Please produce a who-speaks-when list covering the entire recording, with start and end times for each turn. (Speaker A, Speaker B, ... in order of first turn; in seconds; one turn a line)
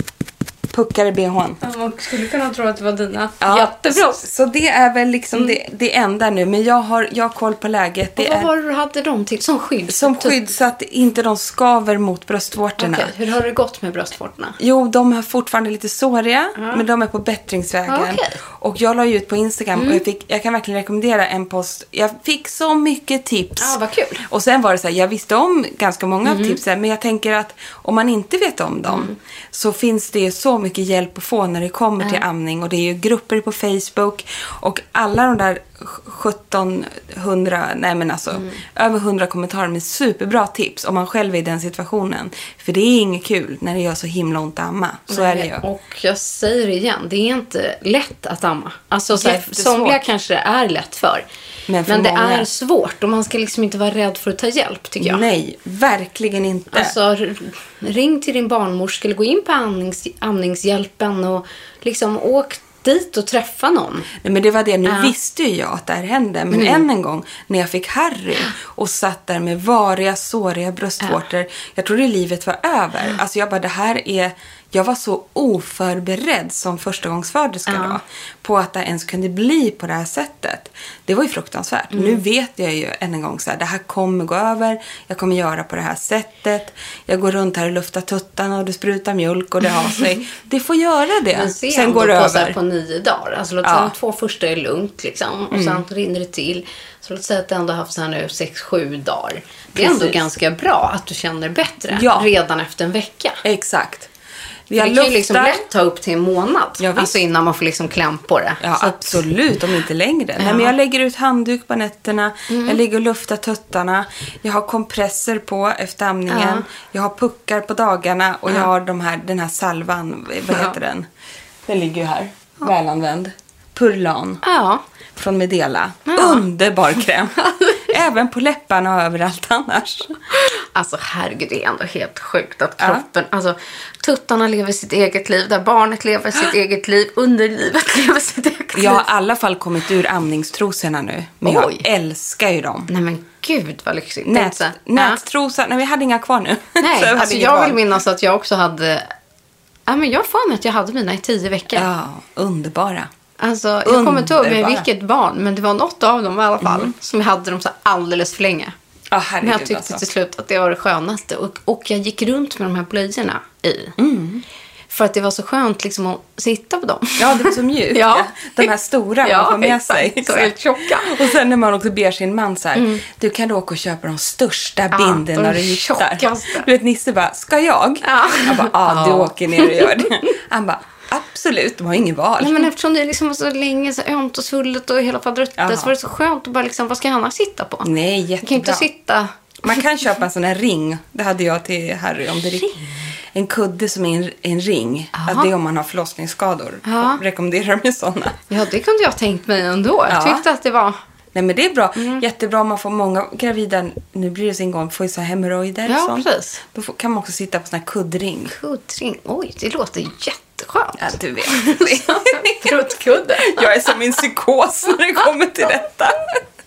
Speaker A: 0.7-1.6
Speaker B: 1.6-4.2
Speaker A: 3.4-8.5
Speaker B: 8.2-10.4
Speaker A: 9.9-13.1
Speaker B: 12.8-14.6
Speaker A: 14.6-45.6
Speaker B: 16.6-16.8
Speaker B: 17.9-18.4
Speaker B: 19.7-20.0
Speaker B: 23.6-24.2
Speaker B: 26.2-26.6
Speaker B: 28.9-29.1
Speaker B: 38.3-38.6
Speaker B: 45.1-51.2
Speaker A: 49.1-50.0
Speaker A: 51.7-52.5
Speaker B: 51.9-55.2
Speaker A: 55.0-57.0
Speaker B: 56.7-64.1
Speaker A: 64.2-92.5
Speaker B: 64.8-65.1
Speaker B: 66.5-66.8
Speaker B: 77.7-78.0
Speaker B: 81.9-82.2
Speaker B: 91.3-103.4
Speaker A: 93.6-93.9
Speaker A: 95.5-95.8
Speaker A: 99.7-100.3
Speaker A: 101.9-102.3
Speaker A: 103.4-104.1
Speaker A: 104.7-105.6
Speaker B: 104.8-109.2
Speaker A: 106.8-107.2
Speaker A: 108.6-121.1
Speaker B: 110.4-110.7
Speaker B: 112.5-112.8
Speaker B: 116.3-116.6
Speaker B: 120.5-120.7
Speaker A: 121.7-124.4
Speaker B: 124.4-124.8
Speaker A: 125.2-130.2
Speaker B: 126.1-126.5
Speaker B: 127.3-127.9
Speaker B: 130.3-139.1
Speaker A: 132.8-133.0
Speaker A: 138.7-142.9
Speaker B: 141.4-141.8
Speaker B: 142.9-145.2
Speaker A: 144.2-147.8
Speaker B: 146.8-149.1
Speaker B: 149.9-151.9
Speaker A: 151.7-153.1
Speaker B: 153.4-158.7
Speaker A: 153.8-154.9
Speaker A: 156.6-156.9
Speaker A: 159.1-160.0
Speaker B: 159.4-163.9
Speaker A: 164.0-164.4
Speaker B: 164.9-168.7
Speaker A: 167.2-182.7
Speaker B: 169.2-171.3
Speaker B: 172.7-173.0
Speaker B: 174.9-176.7
Speaker B: 178.0-180.1
Speaker B: 182.4-187.9
Speaker A: 185.6-185.9
Speaker A: 187.8-188.9
Speaker B: 188.4-189.3
Speaker A: 189.6-192.7
Speaker B: 192.6-192.9
Speaker A: 193.3-198.4
Speaker B: 195.1-195.5
Speaker B: 196.8-197.2
Speaker B: 198.5-201.0
Speaker A: 200.1-200.4
Speaker A: 201.3-208.6
Speaker B: 202.0-202.2
Speaker B: 205.8-206.6
Speaker B: 208.5-213.8
Speaker A: 211.0-216.3